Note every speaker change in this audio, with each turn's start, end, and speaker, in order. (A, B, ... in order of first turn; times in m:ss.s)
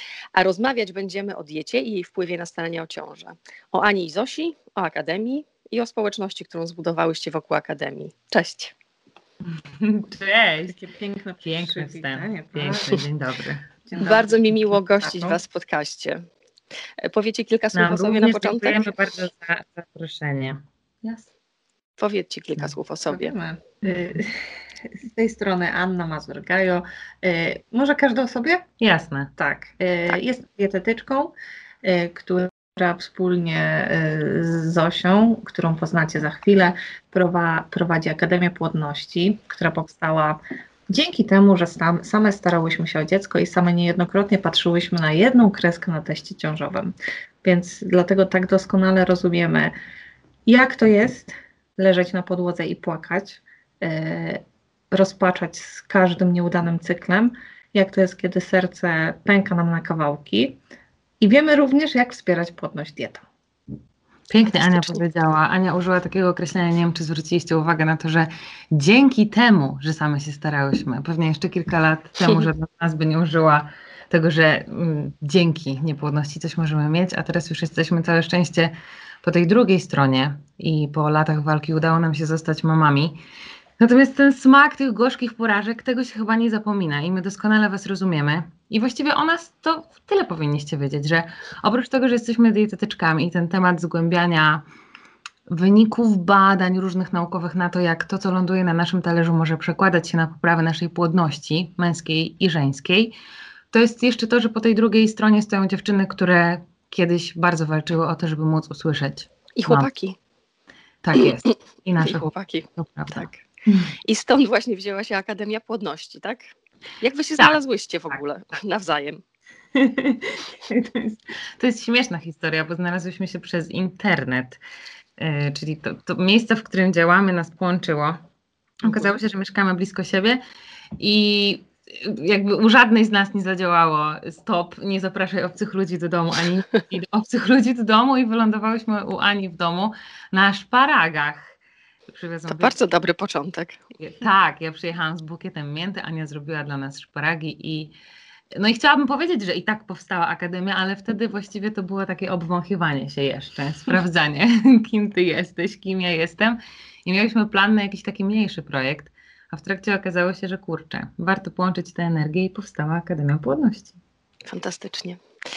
0:00.3-0:08.7 A
0:09.4-0:10.8 B
0:10.7-0:13.0 C
0:11.4-0:13.7 B
0:13.8-0:15.4 C
0:14.0-0:16.2 A
0:17.0-0:18.9 A
0:17.7-0:21.2 B
0:22.0-0:23.3 A
0:23.1-0:28.6 C
0:28.8-0:29.3 B
0:29.4-0:49.7 C
0:50.4-1:00.6 C
1:01.2-1:03.2 C
1:04.3-1:23.2 B
1:12.2-1:12.4 A
1:23.8-1:34.6 B
1:35.5-1:43.1 B
1:43.7-1:49.9 B
1:49.6-1:50.2 A
1:51.0-1:54.0 B
1:51.2-1:53.4 A
1:54.0-1:56.4 A
1:57.0-1:59.2 A
1:59.7-2:04.6 B
2:05.2-2:08.2 B
2:08.8-2:10.4 B
2:08.8-2:09.1 A
2:11.0-2:21.5 B
2:22.1-2:22.8 B
2:22.5-2:23.8 A
2:24.0-2:27.9 B
2:28.5-2:43.9 B
2:44.5-2:45.2 A